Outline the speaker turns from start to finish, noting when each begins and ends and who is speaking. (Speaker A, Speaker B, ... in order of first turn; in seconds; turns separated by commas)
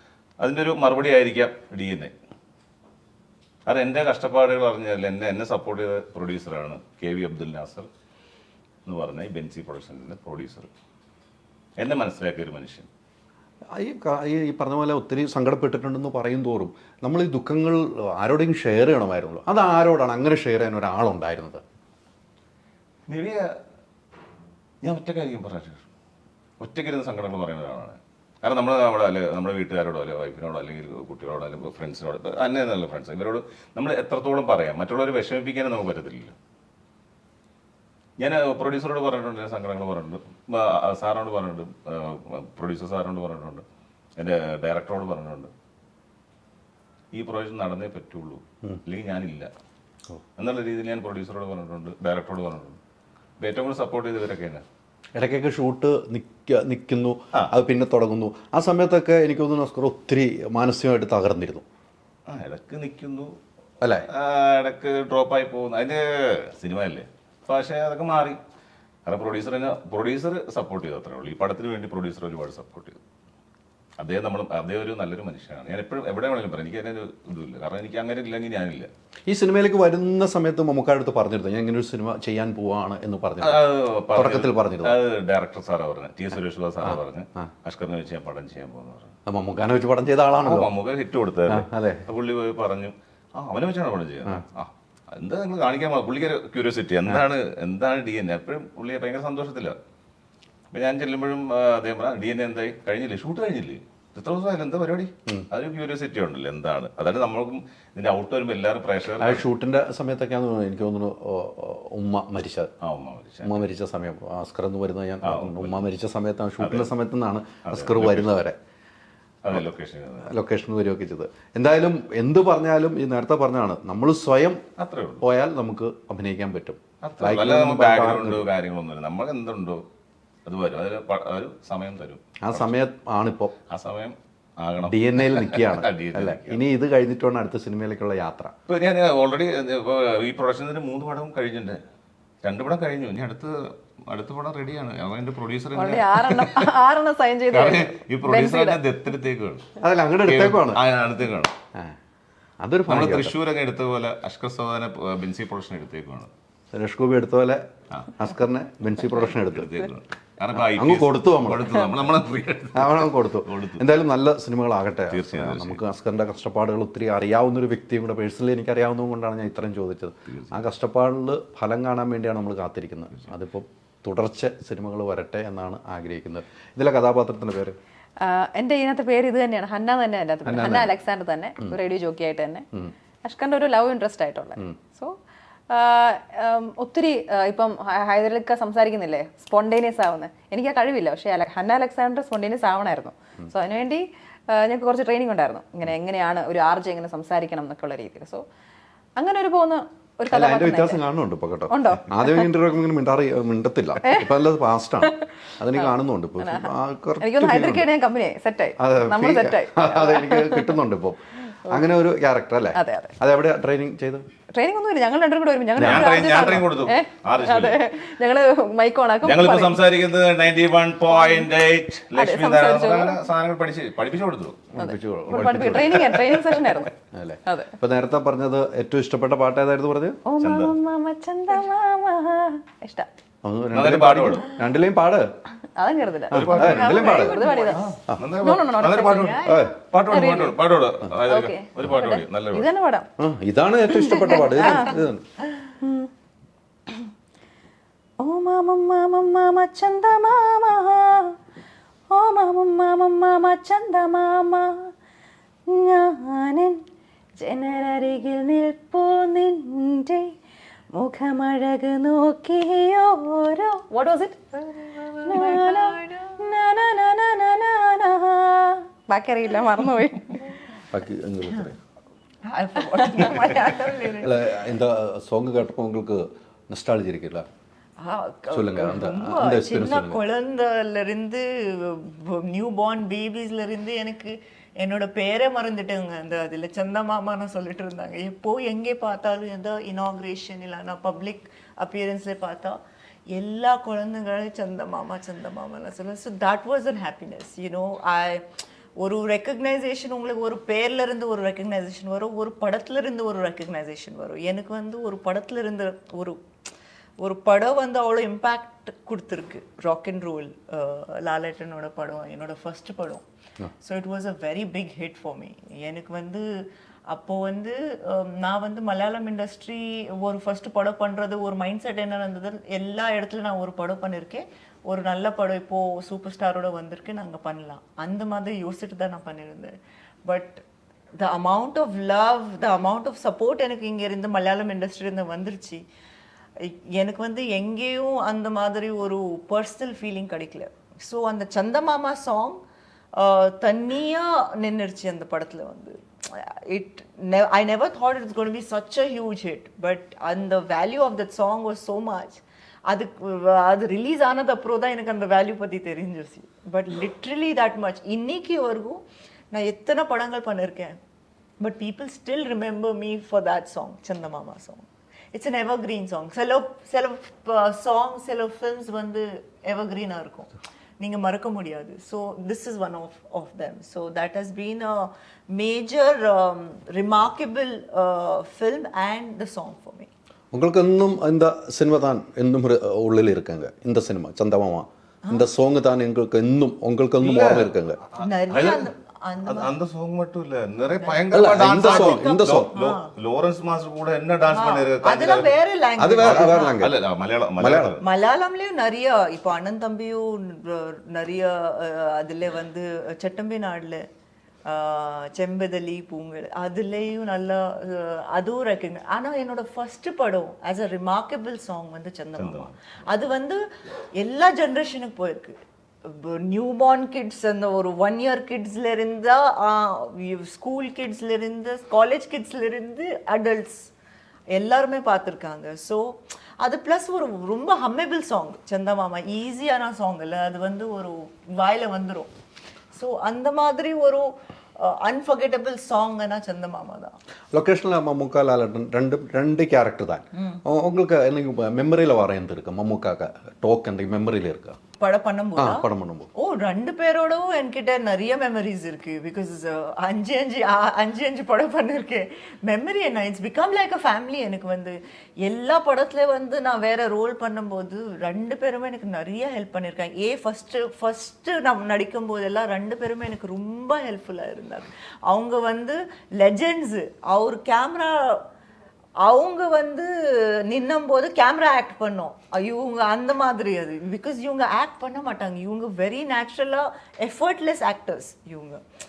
Speaker A: 0.4-2.1, Speaker A: 3.7-7.9, Speaker A: 8.9-10.7, Speaker A: 11.8-12.9, Speaker B: 13.8-21.6, Speaker A: 23.1-23.5, Speaker A: 24.8-25.8, Speaker A: 26.6-36.4, Speaker A: 38.2-43.6, Speaker A: 44.2-45.5, Speaker A: 47.1-49.5, Speaker A: 50.4-52.8, Speaker A: 53.4-54.6, Speaker B: 55.1-61.6, Speaker A: 62.3-63.3, Speaker B: 63.8-64.1, Speaker A: 64.1-68.4, Speaker A: 69.1-73.0, Speaker A: 74.0-78.9, Speaker B: 79.3-85.0, Speaker A: 83.4-89.1, Speaker B: 86.8-87.5, Speaker B: 89.3-90.7, Speaker A: 90.4-99.8, Speaker B: 91.5-92.0, Speaker A: 100.7-109.4, Speaker B: 109.2-112.7, Speaker A: 112.8-113.7, Speaker B: 113.4-118.6, Speaker A: 115.2-115.8, Speaker A: 116.6-116.9, Speaker A: 117.7-118.3, Speaker A: 119.4-120.4, Speaker B: 120.2-124.6, Speaker A: 124.8-125.2, Speaker B: 125.2-128.5, Speaker A: 127.0-129.8, Speaker A: 130.5-132.7, Speaker B: 132.4-133.6, Speaker A: 133.7-136.6, Speaker B: 134.9-138.5, Speaker A: 138.7-141.8, Speaker A: 142.4-146.7, Speaker C: 145.8-148.8, Speaker A: 147.5-149.7, Speaker B: 149.8-150.8, Speaker A: 150.3-151.5, Speaker B: 152.6-153.4, Speaker A: 152.9-156.3, Speaker B: 156.7-157.6, Speaker B: 158.2-159.9, Speaker A: 159.2-163.8, Speaker B: 160.6-161.9, Speaker B: 162.7-177.8, Speaker A: 165.1-165.8, Speaker A: 170.3-170.6, Speaker C: 178.2-182.7, Speaker B: 180.5-180.9, Speaker C: 183.2-185.2, Speaker C: 185.7-198.4, Speaker C: 199.2-201.0, Speaker B: 200.3-207.9, Speaker C: 201.7-202.5, Speaker C: 204.0-204.3, Speaker C: 205.0-210.8, Speaker B: 208.8-214.3, Speaker C: 212.7-213.2, Speaker C: 214.5-219.8, Speaker B: 215.8-216.7, Speaker A: 215.8-217.8, Speaker A: 219.2-224.6, Speaker C: 221.1-221.5, Speaker C: 222.2-223.2, Speaker B: 224.7-226.3, Speaker C: 224.8-226.9, Speaker B: 227.1-230.2, Speaker C: 227.5-227.7, Speaker C: 230.3-233.1, Speaker A: 230.4-230.7, Speaker B: 233.4-235.3, Speaker A: 233.7-234.5, Speaker C: 235.8-239.4, Speaker B: 236.3-237.4, Speaker A: 236.3-242.7, Speaker D: 236.6-237.9, Speaker D: 239.1-239.7, Speaker B: 239.4-239.8, Speaker C: 240.1-240.6, Speaker C: 241.2-243.1, Speaker B: 243.2-245.2, Speaker C: 244.1-245.0, Speaker D: 244.6-244.9, Speaker C: 245.8-246.1, Speaker C: 248.2-251.4, Speaker C: 252.1-254.9, Speaker C: 255.7-256.8, Speaker C: 257.4-260.3, Speaker C: 260.9-264.7, Speaker D: 264.9-266.4, Speaker C: 265.2-270.4, Speaker B: 270.9-271.8, Speaker D: 272.4-274.5, Speaker B: 274.2-277.5, Speaker D: 278.0-292.8, Speaker B: 278.5-280.2, Speaker D: 293.3-298.5, Speaker D: 299.0-306.4, Speaker D: 307.2-313.2, Speaker D: 313.8-316.5, Speaker D: 317.1-330.6, Speaker D: 331.2-335.8, Speaker D: 336.6-342.6, Speaker D: 343.1-361.0, Speaker D: 361.6-380.1, Speaker B: 380.5-388.0, Speaker A: 387.2-388.9, Speaker D: 388.2-389.7, Speaker A: 389.4-395.5, Speaker D: 391.0-393.1, Speaker B: 391.3-392.7, Speaker D: 394.5-396.8, Speaker B: 396.0-397.0, Speaker A: 396.2-398.0, Speaker B: 397.6-398.0, Speaker D: 398.0-404.1, Speaker D: 404.6-413.6, Speaker A: 412.4-412.7, Speaker D: 414.2-423.9, Speaker D: 424.5-432.3, Speaker D: 432.9-437.2, Speaker B: 437.5-444.8, Speaker D: 440.4-440.6, Speaker D: 445.0-468.4, Speaker B: 445.6-446.3, Speaker D: 469.2-478.8